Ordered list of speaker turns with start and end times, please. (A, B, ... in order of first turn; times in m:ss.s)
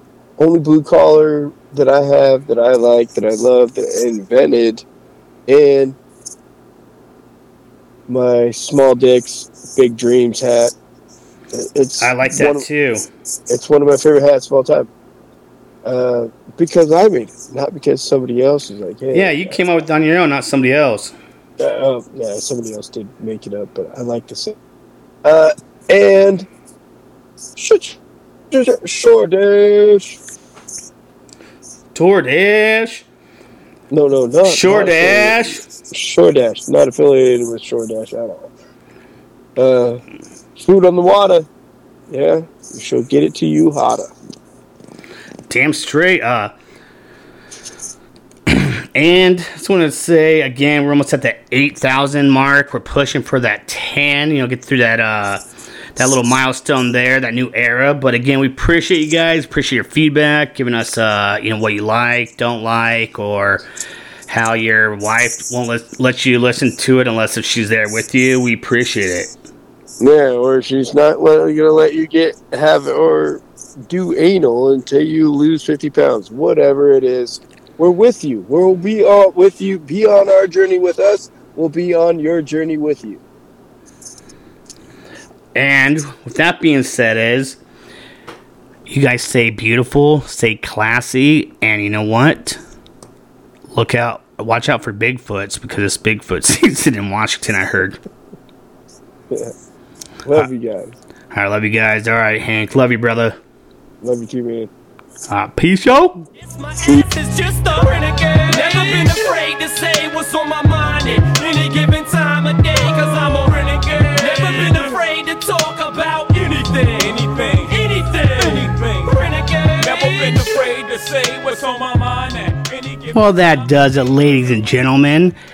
0:00.4-0:04.8 A
0:05.5-0:06.0 A
0:08.1-0:10.7 A
0:11.5-0:12.6 A
0:12.0-0:13.1 B
0:13.5-0:14.9 A
0:15.8-0:19.6 A
0:19.1-0:21.1 B
0:21.6-0:24.6 A
0:25.2-0:26.5 A
0:27.6-0:28.0 A
0:28.5-0:30.2 A
0:31.9-0:33.0 B
0:33.9-0:38.5 A
0:34.4-0:35.6 B
0:39.6-0:40.0 A
0:40.6-0:41.5 A
0:42.1-0:44.1 A
0:45.5-0:46.5 B
0:48.5-0:55.4 B
0:56.0-1:03.6 B
1:04.3-1:09.3 B
1:10.0-1:23.2 A
1:25.5-1:27.6 B
1:28.9-1:32.6 B
1:33.7-1:38.0 B
1:40.2-1:41.0 A
1:41.3-1:43.4 B
1:44.0-1:44.7 A
1:45.3-1:46.2 B
1:46.4-2:03.5 C
2:03.1-2:05.4 B